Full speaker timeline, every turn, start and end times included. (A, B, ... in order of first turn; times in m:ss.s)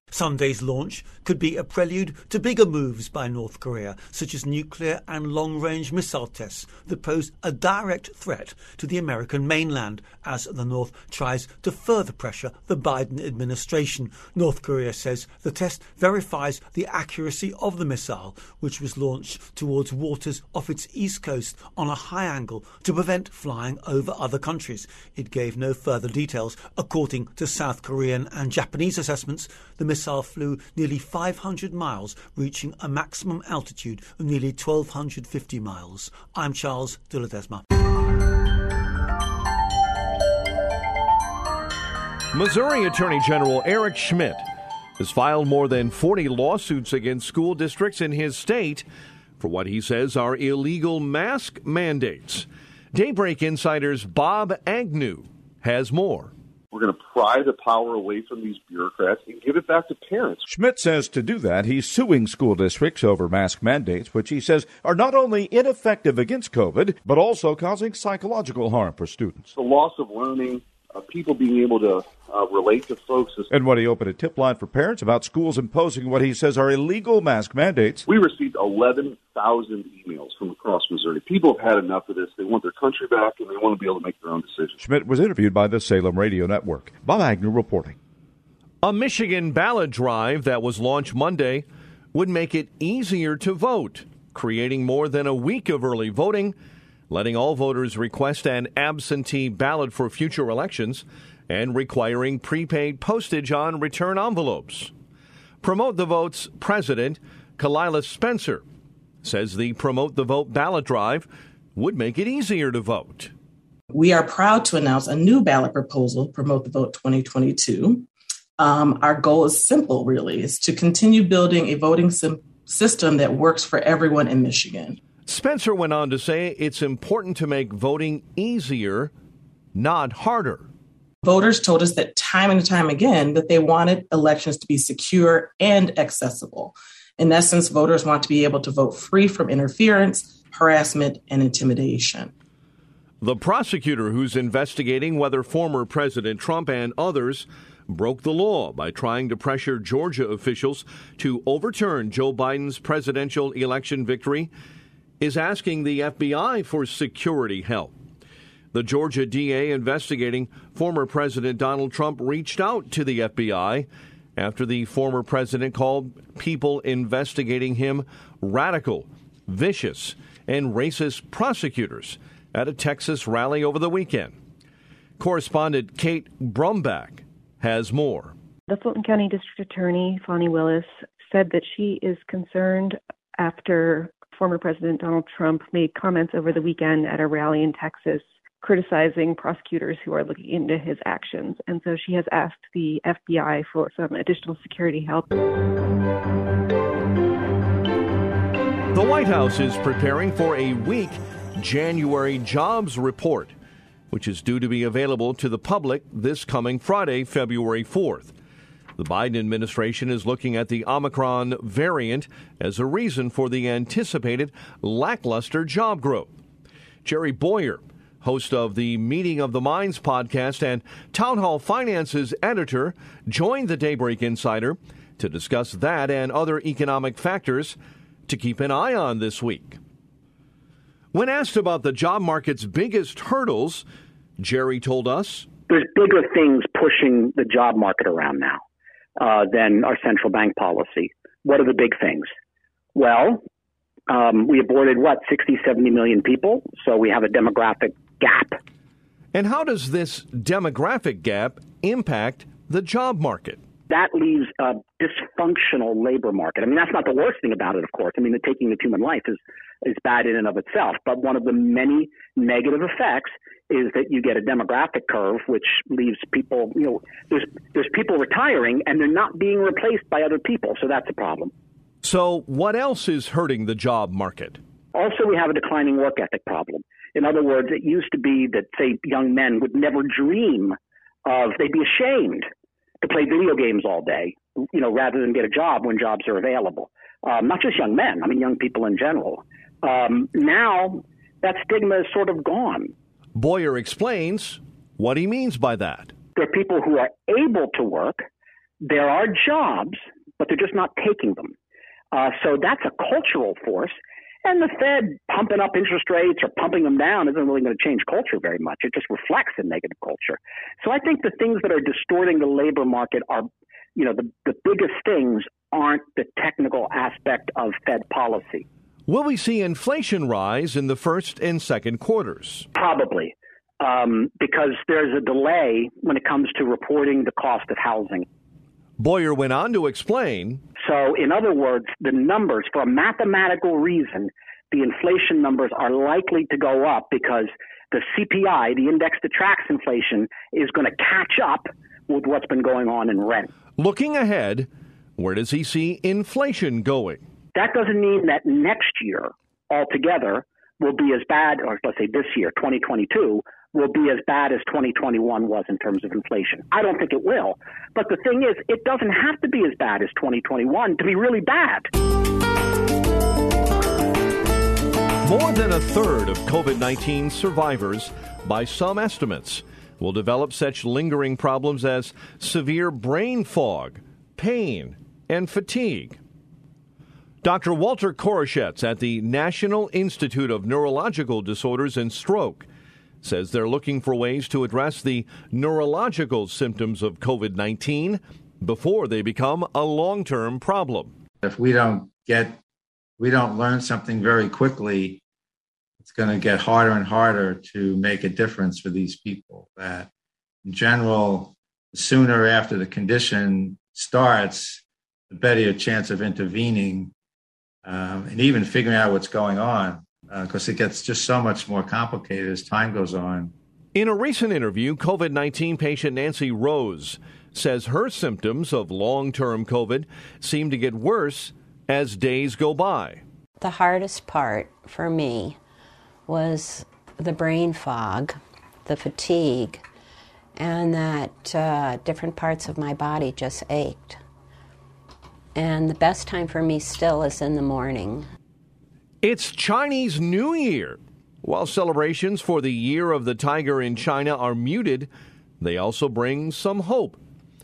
0:00.1-0:37.6 A
0:42.3-0:44.4 B
0:45.0-0:48.8 B
0:49.4-0:56.3 B
0:56.7-1:00.4 C
1:00.5-1:09.5 D
1:09.5-1:13.5 C
1:13.5-1:18.0 D
1:18.0-1:24.8 C
1:24.8-1:27.9 D
1:28.8-1:36.5 B
1:37.1-1:44.9 B
1:45.6-1:48.6 B
1:49.2-1:53.3 B
1:53.9-1:58.0 E
1:58.6-2:05.0 E
2:05.3-2:09.1 B
2:09.7-2:10.7 B
2:11.2-2:22.3 E
2:23.2-2:34.5 B
2:35.2-2:37.9 B
2:38.7-2:54.4 B
2:55.2-2:58.3 B
2:58.7-3:15.3 F
3:18.9-3:23.5 B
3:24.1-3:28.3 B
3:29.0-3:36.3 B
3:37.0-3:49.8 B
3:51.1-3:53.8 B
3:54.4-3:55.5 B
3:55.7-3:58.6 G
3:59.2-4:02.3 G
4:02.9-4:03.4 G
4:04.1-4:08.6 G
4:09.3-4:13.6 B
4:13.9-4:31.5 G
4:32.0-4:34.6 B
4:34.9-4:42.4 G
4:43.0-4:52.9 G
4:53.4-4:56.1 B
4:56.4-4:58.2 G
4:58.8-5:01.5 G
5:02.1-5:18.6 G
5:19.1-5:22.7 B
5:22.7-5:28.2 G
5:29.0-5:30.6 B
5:30.8-5:43.5 G
5:43.8-5:47.2 B
5:47.5-6:01.9 G
6:05.2-6:16.2 B
6:17.4-6:22.6 B
6:23.2-6:31.1 B
6:31.4-6:32.6 H
6:33.2-6:35.2 H
6:36.0-6:40.1 H
6:40.6-6:47.1 H
6:47.8-6:53.5 H
6:53.9-7:03.2 B
7:03.6-7:05.6 I
7:06.3-7:09.8 I
7:10.6-7:14.2 I
7:15.5-7:18.2 I
7:19.2-7:25.1 B
7:25.6-7:27.2 B